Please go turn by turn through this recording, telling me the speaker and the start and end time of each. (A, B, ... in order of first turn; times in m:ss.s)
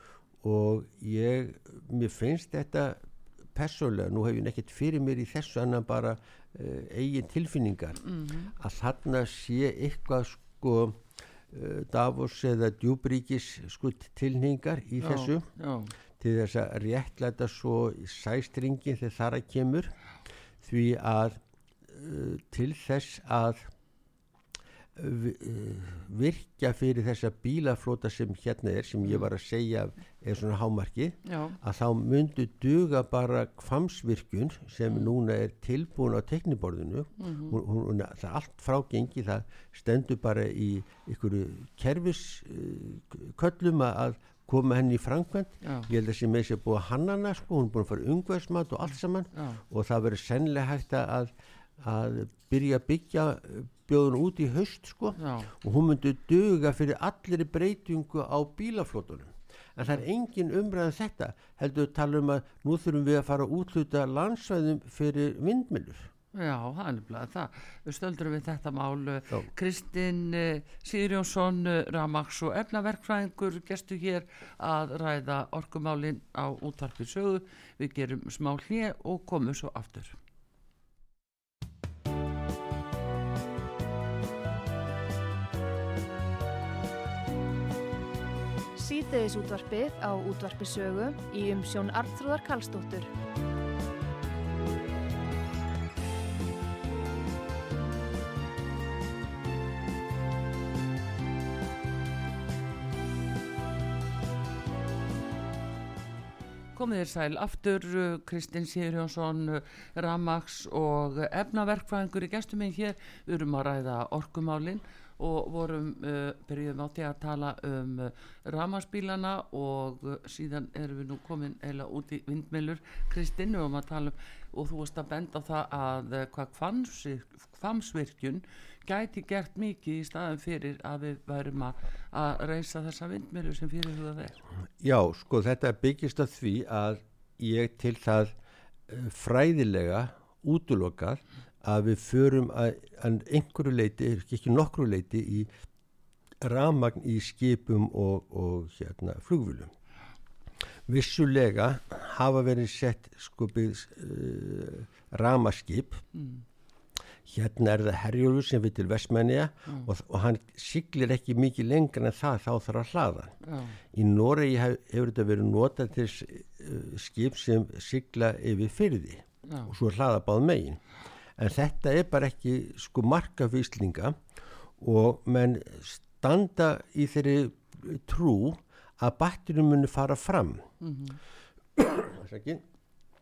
0:00.4-0:03.0 A
0:03.6-0:08.0 A
0:08.0-0:08.5 B
0:08.6-0:15.5 A
0:15.0-0:15.9 B
0:16.2-0:19.9 A
0:20.6-0:23.7 A
0:25.0-1:06.1 A
0:29.0-0:29.3 B
0:31.3-0:31.6 B
0:37.2-0:37.6 B
0:45.6-0:45.9 B
0:49.3-0:49.6 B
0:55.2-0:55.5 B
1:06.3-1:20.2 B
1:28.8-1:33.1 C
1:46.8-2:14.4 B
2:14.8-2:18.3 A
2:18.9-2:25.5 A
2:26.4-2:29.7 A
2:30.9-2:36.0 A
2:36.1-2:36.4 B
2:37.2-2:43.4 A
2:43.4-2:43.8 B
2:43.9-2:50.8 A
2:49.5-2:49.7 B
2:51.4-2:54.2 A
2:54.8-3:00.7 A
3:00.8-3:01.2 B
3:01.8-3:02.6 A